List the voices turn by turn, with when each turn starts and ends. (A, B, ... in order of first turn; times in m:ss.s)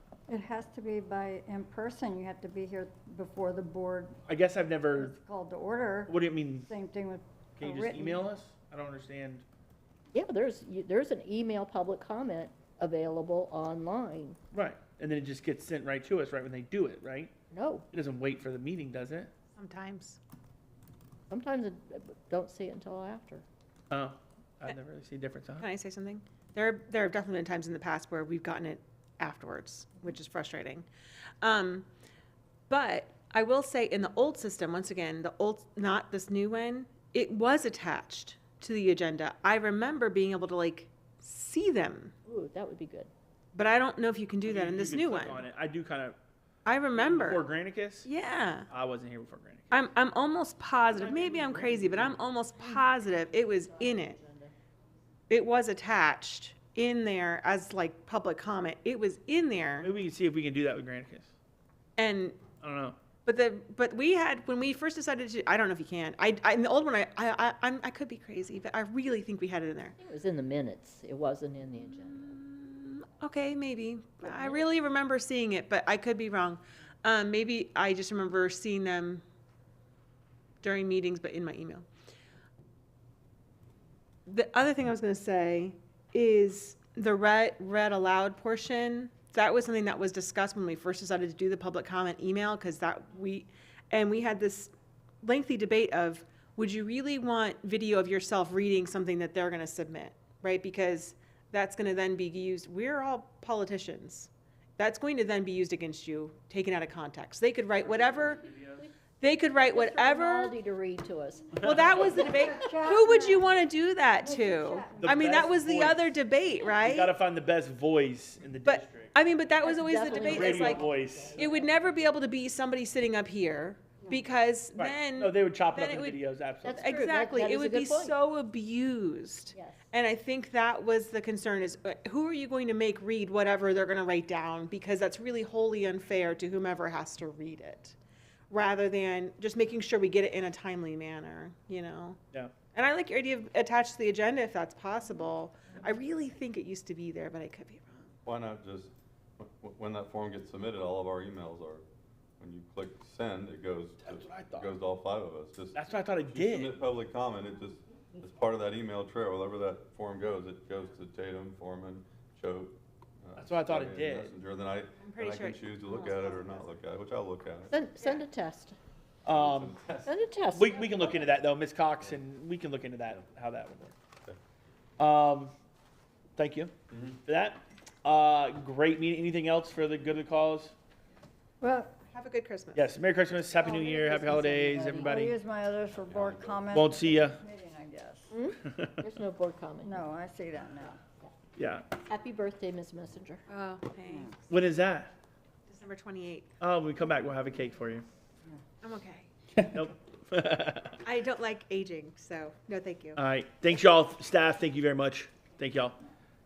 0:00.3-0:04.2 A
0:04.3-0:05.1 B
0:04.9-0:08.3 A
0:06.1-0:06.7 B
0:07.6-0:09.4 B
0:10.1-0:14.4 C
0:14.5-0:17.3 B
0:17.5-0:17.9 C
0:17.9-0:19.3 B
0:19.6-0:20.2 D
0:21.3-0:23.4 C
0:23.9-0:25.7 B
0:25.6-0:30.9 D
0:31.4-0:31.9 D
0:32.7-0:42.1 D
0:42.3-0:43.1 C
0:43.5-0:45.4 D
0:44.4-0:46.2 B
0:46.6-0:47.5 D
0:46.9-0:48.1 B
0:48.0-0:48.7 D
0:48.7-0:49.7 B
0:49.7-0:54.2 D
0:51.0-0:51.9 C
0:51.7-0:52.0 B
0:52.5-0:54.5 C
0:55.3-0:59.9 D
0:59.8-1:01.3 B
1:02.0-1:02.4 D
1:02.6-1:03.0 B
1:03.2-1:10.0 D
1:10.0-1:12.4 C
1:11.7-1:19.2 D
1:14.2-1:14.7 C
1:20.6-1:21.8 D
1:24.2-1:48.4 D
1:47.8-1:48.9 B
1:49.2-1:50.5 D
1:49.7-1:52.5 C
1:51.6-1:57.1 D
1:51.6-1:52.3 B
1:52.1-1:53.5 A
1:54.2-1:55.5 A
1:55.0-1:56.2 B
1:56.8-1:59.1 B
1:58.6-2:06.2 D
1:59.6-2:01.7 C
2:00.2-2:01.5 B
2:04.8-2:06.9 B
2:06.6-2:08.1 C
2:06.7-2:18.0 D
2:09.5-2:09.8 C
2:18.5-2:22.2 D
2:22.7-2:28.1 D
2:28.2-2:31.8 E
2:32.4-2:47.7 E
2:34.0-2:34.7 B
2:35.7-2:36.8 B
2:43.4-2:44.3 B
2:45.0-2:46.8 D
2:47.7-2:48.8 C
2:49.2-2:49.8 B
2:49.2-2:50.2 E
2:50.0-2:51.1 C
2:50.5-2:53.9 B
2:55.0-2:55.5 B
2:56.4-2:56.7 B
2:56.9-2:57.2 E
2:57.2-3:00.7 B
3:01.6-3:01.9 A
3:02.1-3:02.9 D
3:02.7-3:05.4 B
3:03.6-3:08.4 A
3:06.0-3:06.9 E
3:06.7-3:07.4 B
3:08.3-3:10.0 C
3:08.6-3:09.0 B
3:09.8-3:11.0 A
3:11.6-3:11.9 B
3:12.0-3:13.4 C
3:13.5-3:14.5 D
3:14.5-3:15.1 B
3:15.7-3:16.5 D
3:16.6-3:18.0 B
3:18.8-3:19.3 D
3:19.7-3:21.0 B
3:21.0-3:23.2 D
3:23.2-3:26.0 B